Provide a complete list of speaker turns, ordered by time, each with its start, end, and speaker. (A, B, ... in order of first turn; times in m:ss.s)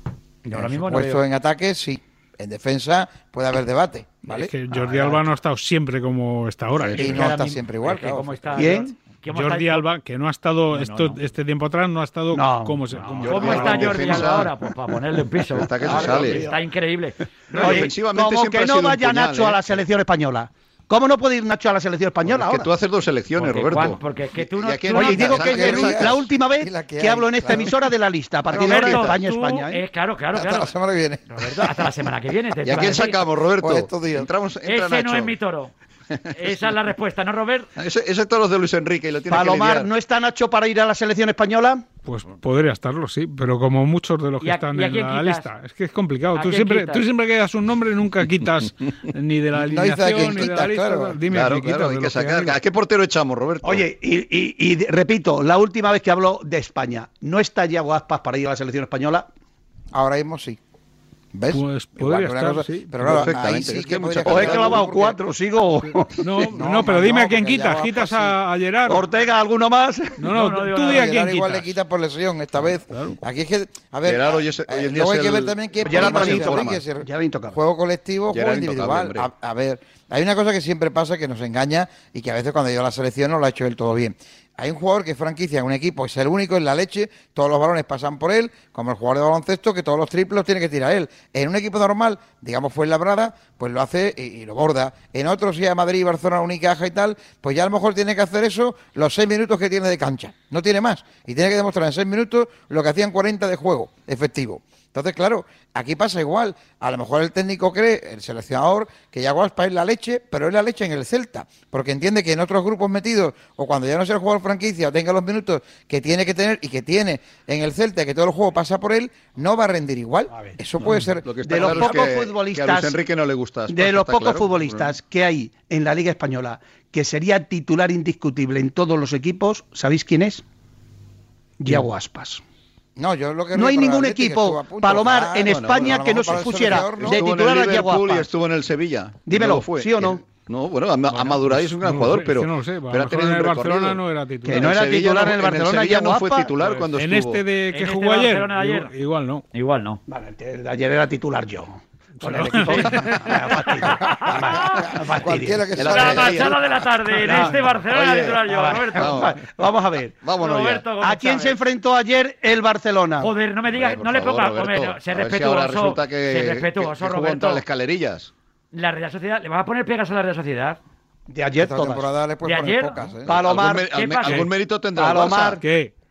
0:00.4-0:01.2 A
0:00.5-0:04.5 B
0:04.2-0:07.2 C
0:04.7-0:05.2 D
0:07.0-0:08.8 B
0:07.0-0:09.8 A
0:08.5-0:08.9 D
0:09.3-0:14.4 C
0:10.7-0:11.2 A
0:12.3-0:13.7 D
0:13.0-0:17.9 A
0:13.2-0:14.5 E
0:15.5-0:16.5 E
0:15.8-0:16.6 D
0:17.5-0:22.7 D
0:17.5-0:19.8 E
0:22.2-0:26.3 E
0:23.4-0:25.8 A
0:24.9-0:29.8 D
0:25.2-0:27.7 B
0:28.5-0:29.2 E
0:28.5-0:30.7 A
0:30.3-0:31.8 B
0:31.3-0:33.2 A
0:32.6-0:35.3 E
0:32.7-0:33.0 B
0:33.6-0:34.3 B
0:34.6-0:35.7 A
0:36.3-0:37.7 A
0:37.8-0:39.9 E
0:39.3-0:41.9 D
0:42.0-0:52.6 C
0:44.4-0:45.5 A
0:46.3-0:47.0 A
0:49.5-0:51.2 B
0:51.3-0:53.8 E
0:53.6-0:59.3 D
0:59.9-1:00.6 B
1:01.3-1:05.2 B
1:01.5-1:03.3 C
1:03.0-1:04.8 E
1:04.2-1:06.5 D
1:06.2-1:09.1 C
1:06.5-1:08.4 B
1:08.9-1:10.4 D
1:10.2-1:11.7 C
1:10.3-1:11.0 A
1:10.8-2:02.0 B
1:12.9-1:13.2 C
1:14.0-1:16.8 E
1:15.8-1:17.6 D
1:18.3-1:19.3 E
2:01.2-2:04.9 E
2:01.4-2:03.0 D
2:03.7-2:10.4 D
2:11.6-2:12.4 D
2:13.0-2:17.3 B
2:13.5-2:18.3 D
2:15.4-2:27.4 E
2:19.3-2:20.2 D
2:21.6-2:24.8 C
2:24.4-2:26.5 D
2:26.9-2:29.4 C
2:27.7-2:28.9 A
2:29.5-2:30.0 A
2:30.1-2:35.7 D
2:32.2-2:33.4 C
2:32.7-2:33.3 A
2:33.8-2:36.6 B
2:34.1-2:34.8 A
2:35.8-2:36.7 E
2:35.9-2:39.3 A
2:37.2-2:37.6 D
2:37.9-2:38.4 E
2:38.4-2:40.2 D
2:38.9-2:39.4 E
2:40.2-2:40.8 E
2:40.4-2:41.6 A
2:41.0-2:43.3 D
2:43.2-2:47.6 A
2:43.7-2:48.3 E
2:48.7-2:50.8 A
2:51.3-2:52.0 D
2:51.6-2:53.4 B
2:52.4-2:53.0 A
2:53.2-2:53.9 D
2:53.3-2:55.6 E
2:53.9-2:54.4 A
2:55.0-2:55.6 D
2:55.6-2:55.9 C